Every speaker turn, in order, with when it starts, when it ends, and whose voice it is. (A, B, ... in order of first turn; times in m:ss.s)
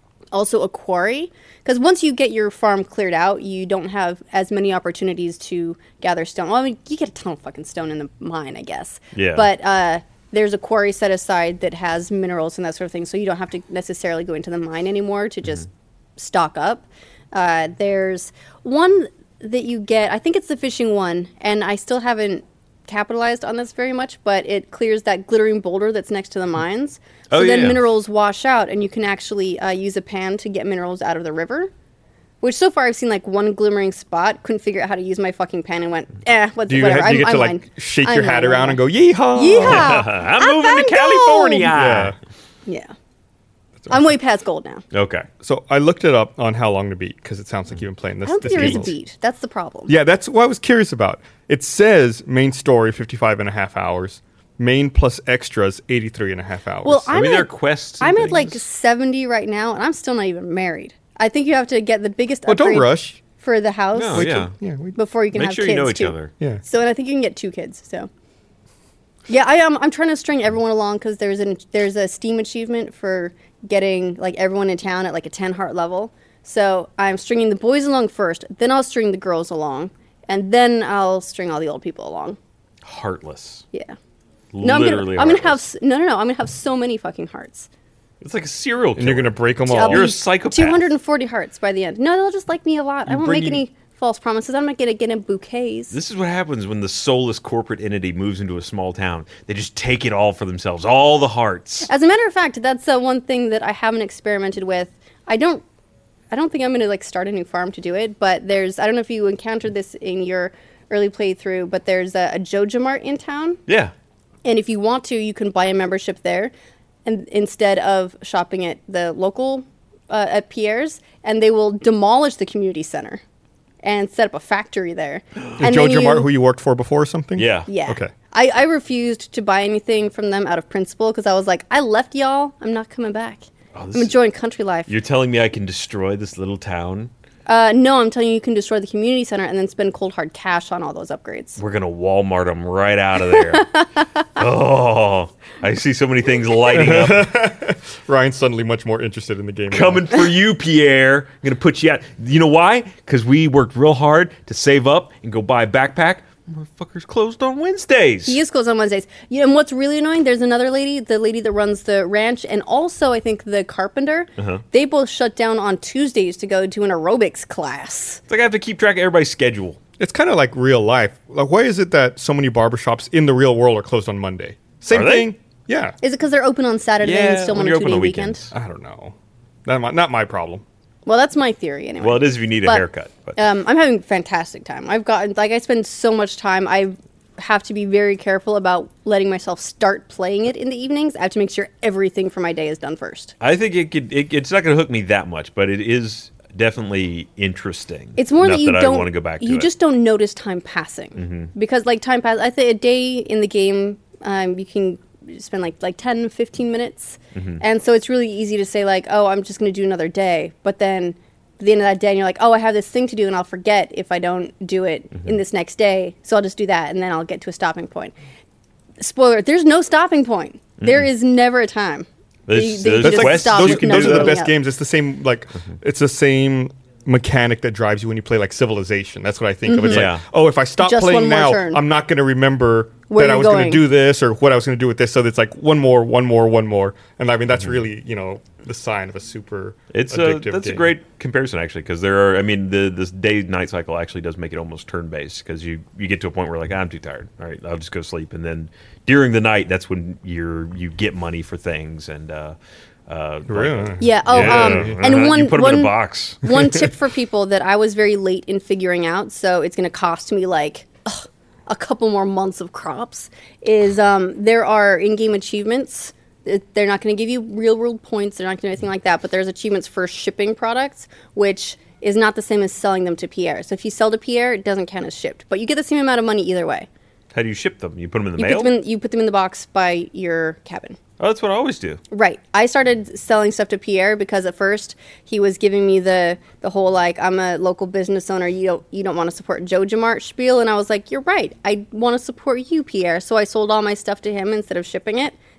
0:00.3-0:31.7 A
0:09.1-0:09.5 B
0:27.3-0:27.9 B
0:32.4-0:38.8 A
0:36.7-0:40.1 C
0:39.3-0:41.7 A
0:39.6-0:42.1 B
0:41.7-0:42.2 C
0:42.7-0:42.9 A
0:43.8-0:44.1 C
0:43.9-0:44.8 A
0:44.9-0:45.3 B
0:45.4-0:48.9 C
0:48.2-0:49.9 A
0:49.9-0:57.1 C
0:56.8-1:04.4 A
0:57.1-0:58.6 B
1:02.5-1:03.2 C
1:03.9-1:04.5 B
1:04.1-1:05.0 C
1:05.0-1:08.1 A
1:05.3-1:06.3 B
1:09.3-1:22.4 A
1:22.8-1:23.6 B
1:23.7-1:24.0 A
1:24.5-1:25.6 B
1:24.6-1:27.7 A
1:28.2-1:30.8 B
1:29.0-1:30.1 C
1:29.7-1:36.0 A
1:33.1-1:33.6 B
1:35.9-1:41.9 B
1:41.9-1:45.6 A
1:46.3-1:53.6 A
1:53.7-1:53.9 B
1:54.4-1:56.5 A
1:57.0-2:03.2 A
2:03.8-2:06.3 A
2:05.6-2:08.1 C
2:07.4-2:07.7 B
2:07.7-2:14.9 A
2:13.7-2:14.1 B
2:14.9-2:17.1 B
2:17.5-2:21.6 A
2:21.6-2:23.8 B
2:23.5-2:23.9 A
2:24.3-2:27.3 B
2:26.7-2:30.2 C
2:29.7-2:38.4 B
2:38.2-2:48.2 A
2:44.4-2:44.6 B
2:48.3-2:49.8 B
2:50.0-2:56.0 C
2:54.9-2:55.3 B
2:56.0-2:58.4 A
2:57.0-2:58.5 B
2:58.5-3:00.6 C
3:01.0-3:13.3 A
3:02.0-3:03.4 B
3:13.4-3:19.7 B
3:18.2-3:38.1 A
3:21.2-3:21.5 B
3:27.3-3:27.6 B
3:39.0-3:44.5 A
3:40.8-3:41.0 B
3:42.5-3:44.4 B
3:43.0-4:00.9 C
3:49.6-3:50.1 A
3:49.9-3:50.2 B
3:50.8-3:51.8 A
3:53.1-3:53.8 A
3:59.9-4:12.6 B
4:13.1-4:16.7 B
4:13.5-4:15.0 C
4:14.0-4:36.9 A
4:37.3-4:38.7 B
4:38.4-4:41.0 A
4:41.2-4:42.0 B
4:42.1-4:55.3 A